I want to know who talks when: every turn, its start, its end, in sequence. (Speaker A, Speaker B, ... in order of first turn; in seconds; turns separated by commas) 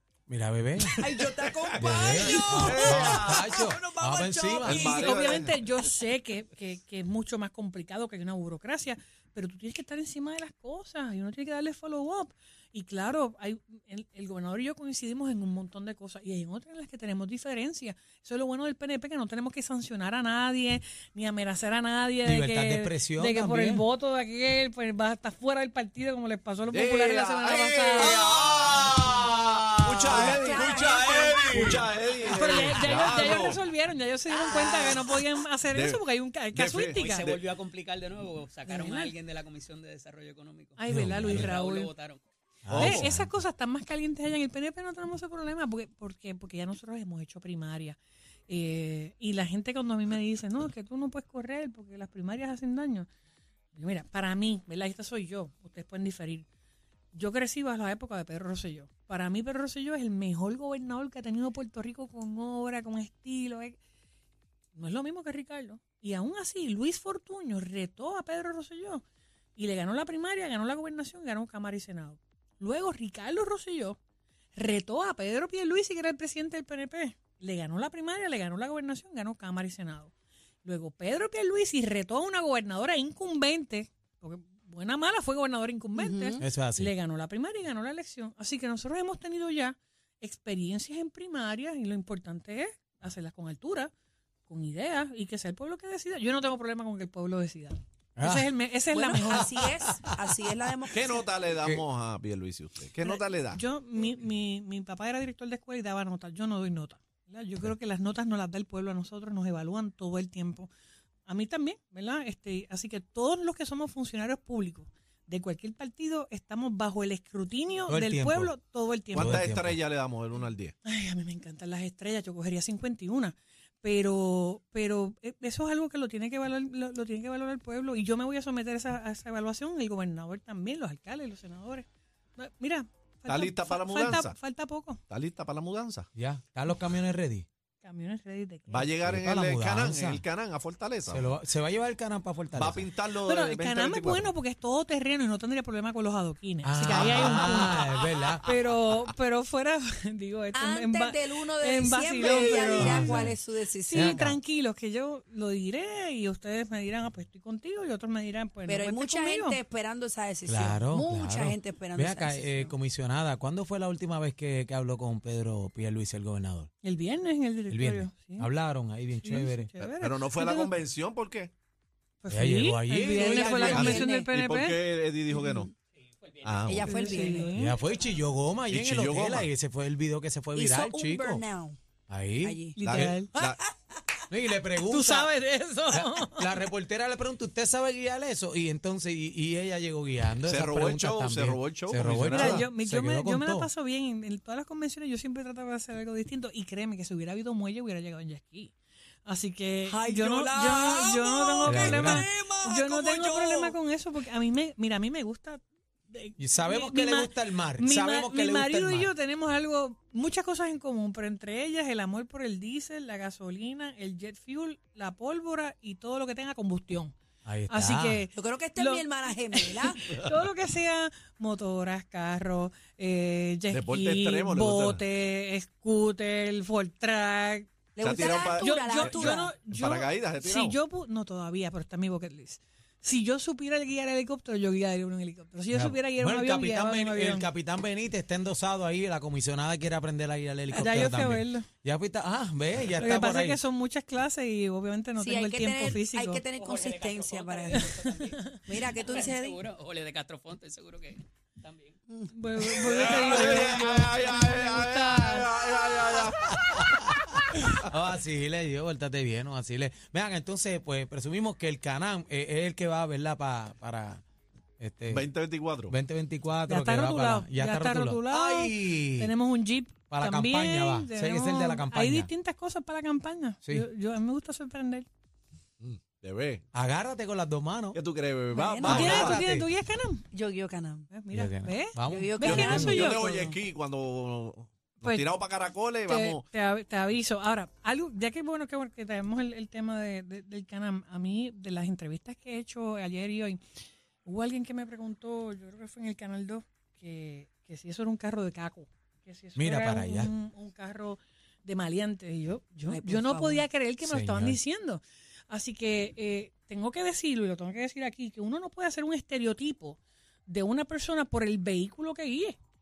Speaker A: 0.3-1.1, Speaker B: 1.0-5.2, Speaker C: 1.4-3.5, Speaker A: 1.8-5.0, Speaker C: 4.6-5.6, Speaker D: 4.6-28.1, Speaker A: 22.2-23.8, Speaker C: 26.7-28.9, Speaker A: 27.9-31.9, Speaker C: 29.8-33.6, Speaker B: 30.1-31.9, Speaker D: 32.2-37.4, Speaker E: 34.3-35.1, Speaker C: 35.7-37.1, Speaker E: 36.9-42.2, Speaker D: 38.7-39.1, Speaker D: 40.8-41.9, Speaker A: 40.9-41.5, Speaker A: 42.6-43.3, Speaker C: 42.7-43.1, Speaker D: 42.8-53.1, Speaker D: 53.7-56.5, Speaker D: 57.1-63.8, Speaker D: 64.7-69.0, Speaker D: 69.5-74.0, Speaker D: 74.5-80.1, Speaker D: 80.6-93.9, Speaker B: 86.0-86.4, Speaker A: 86.4-86.9, Speaker D: 94.5-99.5, Speaker A: 98.2-98.5, Speaker B: 98.9-101.2, Speaker A: 99.7-100.0, Speaker C: 100.9-103.6, Speaker D: 103.0-110.7, Speaker D: 111.2-119.4, Speaker A: 117.9-118.5, Speaker A: 119.1-119.8, Speaker C: 119.1-120.7, Speaker D: 120.8-135.0, Speaker C: 133.3-134.4, Speaker C: 135.1-136.1, Speaker A: 136.1-137.4, Speaker D: 137.8-138.9, Speaker C: 138.7-141.3, Speaker A: 139.0-140.2, Speaker A: 141.1-142.9, Speaker C: 142.5-144.3, Speaker D: 143.2-147.9, Speaker A: 146.6-148.5, Speaker B: 146.8-147.6, Speaker D: 148.4-153.3, Speaker B: 150.5-154.2, Speaker C: 152.2-152.7, Speaker A: 152.7-153.4, Speaker D: 153.8-159.6, Speaker A: 153.9-154.4, Speaker B: 158.7-162.7, Speaker A: 160.4-166.7, Speaker D: 166.8-168.5, Speaker A: 167.7-169.7, Speaker D: 169.2-170.7, Speaker C: 169.8-171.5, Speaker D: 172.2-174.8, Speaker A: 172.3-174.1, Speaker B: 173.1-174.3, Speaker C: 173.4-175.7, Speaker B: 175.3-175.6, Speaker E: 176.2-177.4, Speaker C: 176.4-176.9, Speaker B: 176.7-177.5, Speaker D: 176.8-177.8, Speaker A: 177.5-181.4, Speaker C: 178.7-179.5, Speaker B: 180.5-181.8, Speaker A: 182.1-183.2, Speaker B: 182.4-182.8, Speaker D: 182.8-183.4, Speaker C: 182.8-183.6, Speaker B: 183.3-183.7, Speaker A: 184.3-185.3, Speaker D: 184.9-186.5, Speaker A: 185.9-193.7, Speaker C: 190.4-192.7, Speaker D: 192.3-198.7, Speaker D: 199.2-217.1, Speaker B: 199.9-203.8, Speaker A: 201.6-202.2, Speaker A: 206.4-209.1, Speaker A: 217.4-218.2, Speaker D: 217.7-237.5, Speaker B: 218.3-220.0, Speaker C: 223.7-225.0, Speaker B: 227.9-229.6, Speaker C: 228.0-230.8, Speaker A: 235.7-243.6, Speaker D: 240.7-241.7, Speaker D: 243.0-246.4, Speaker B: 245.2-248.0, Speaker E: 246.5-252.0, Speaker D: 247.7-249.3, Speaker B: 248.7-249.6, Speaker B: 252.1-253.1, Speaker D: 252.3-255.6, Speaker C: 252.9-256.9, Speaker A: 256.9-264.2, Speaker A: 264.8-265.3, Speaker C: 265.1-265.9, Speaker A: 265.9-269.3, Speaker D: 266.7-275.1, Speaker A: 270.1-272.3, Speaker C: 275.8-276.6, Speaker A: 276.7-278.0, Speaker C: 277.9-279.4, Speaker B: 278.5-279.3, Speaker D: 278.8-280.3, Speaker A: 278.8-279.7, Speaker B: 280.3-281.1, Speaker D: 281.1-283.6, Speaker A: 281.3-283.2, Speaker B: 282.1-283.0, Speaker C: 282.4-286.4, Speaker D: 285.0-285.3, Speaker D: 286.1-293.6, Speaker D: 294.2-312.6, Speaker A: 299.6-300.3, Speaker B: 302.9-303.6, Speaker A: 304.0-304.6